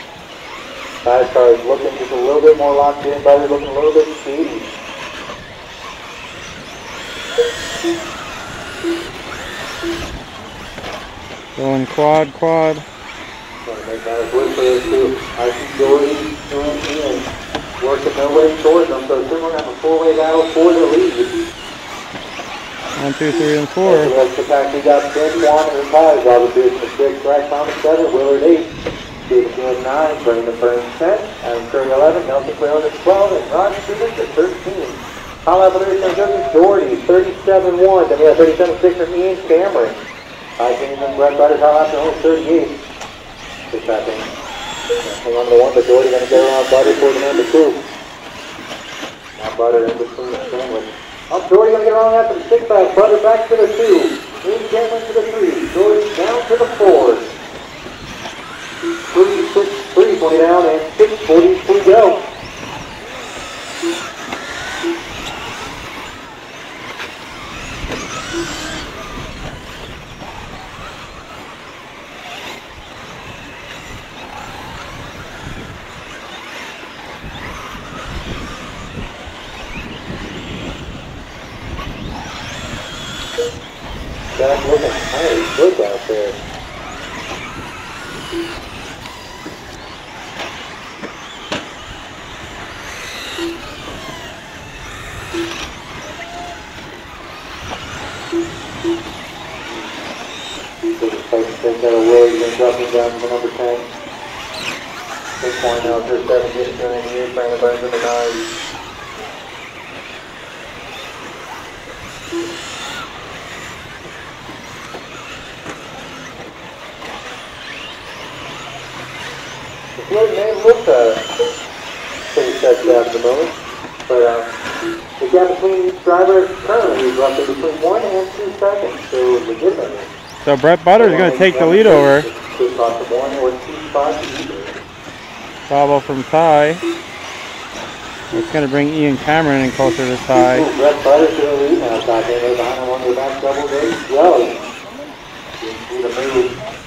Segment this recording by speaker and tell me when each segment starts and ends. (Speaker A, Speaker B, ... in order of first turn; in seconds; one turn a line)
Speaker A: 1.0-4.7
Speaker B: 11.6-12.8
Speaker A: 13.7-21.4
Speaker B: 23.0-24.1
Speaker A: 23.8-28.7
Speaker A: 29.3-40.0
Speaker A: 40.6-42.8
Speaker A: 43.7-44.3
Speaker A: 45.0-47.8
Speaker A: 49.4-57.3
Speaker A: 59.0-62.3
Speaker A: 84.3-86.4
Speaker A: 101.0-103.9
Speaker A: 105.4-108.5
Speaker A: 120.0-121.2
Speaker A: 122.3-124.5
Speaker A: 125.2-130.1
Speaker B: 130.4-132.3
Speaker A: 130.9-134.8
Speaker B: 135.7-136.8
Speaker B: 138.3-140.7
Speaker A: 140.5-144.6
Speaker A: 145.6-146.6